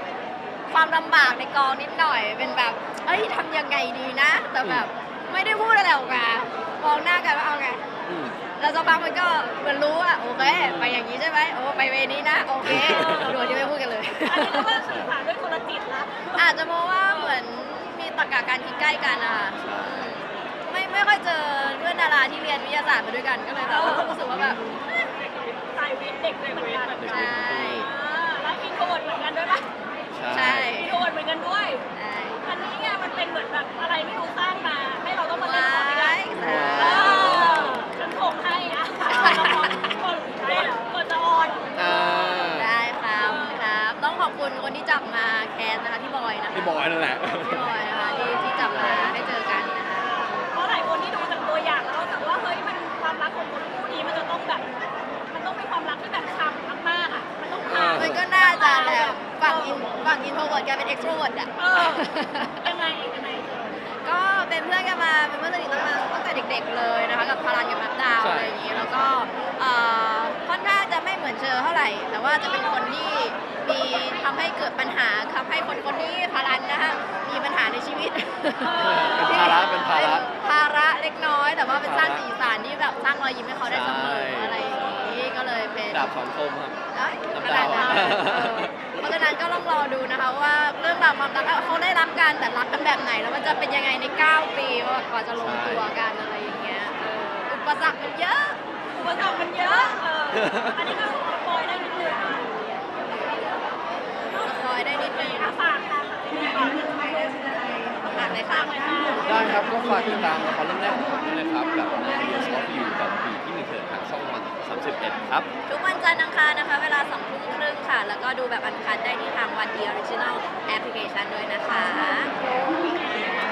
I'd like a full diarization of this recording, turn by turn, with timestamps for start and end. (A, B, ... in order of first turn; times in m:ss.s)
0:00.7-0:07.8 A
0:08.0-0:08.4 B
0:08.6-0:14.8 A
0:10.4-0:11.0 B
0:12.6-0:13.4 B
0:13.0-0:13.3 C
0:14.2-0:16.4 C
0:14.8-0:15.1 B
0:16.3-0:24.6 A
0:19.6-0:20.1 B
0:23.7-0:24.2 C
0:25.5-0:29.6 C
0:27.0-0:27.9 B
0:27.0-0:27.9 A
0:30.1-0:30.8 B
0:30.3-0:31.0 A
0:30.7-0:31.8 C
0:31.9-0:32.4 A
0:32.4-0:42.4 C
0:35.4-0:37.5 A
0:36.4-0:37.9 B
0:39.1-0:39.8 A
0:39.3-0:39.8 B
0:41.7-0:42.7 B
0:42.1-0:46.8 A
0:43.2-0:43.6 C
0:46.5-0:49.4 B
0:47.4-0:50.3 A
0:50.0-0:59.8 C
0:57.6-0:58.2 B
0:57.9-1:02.7 A
1:01.6-1:03.7 C
1:04.0-1:26.1 A
1:08.2-1:09.1 B
1:18.6-1:19.9 C
1:18.8-1:20.2 B
1:21.8-1:22.2 B
1:23.6-1:25.0 B
1:25.9-1:26.8 B
1:26.9-1:38.6 A
1:27.3-1:28.7 B
1:35.4-1:35.9 B
1:39.0-1:42.5 C
1:40.3-1:41.0 B
1:44.3-1:49.4 C
1:44.4-1:45.5 A
1:48.1-1:49.3 A
1:49.2-1:55.5 B
1:55.7-2:02.3 A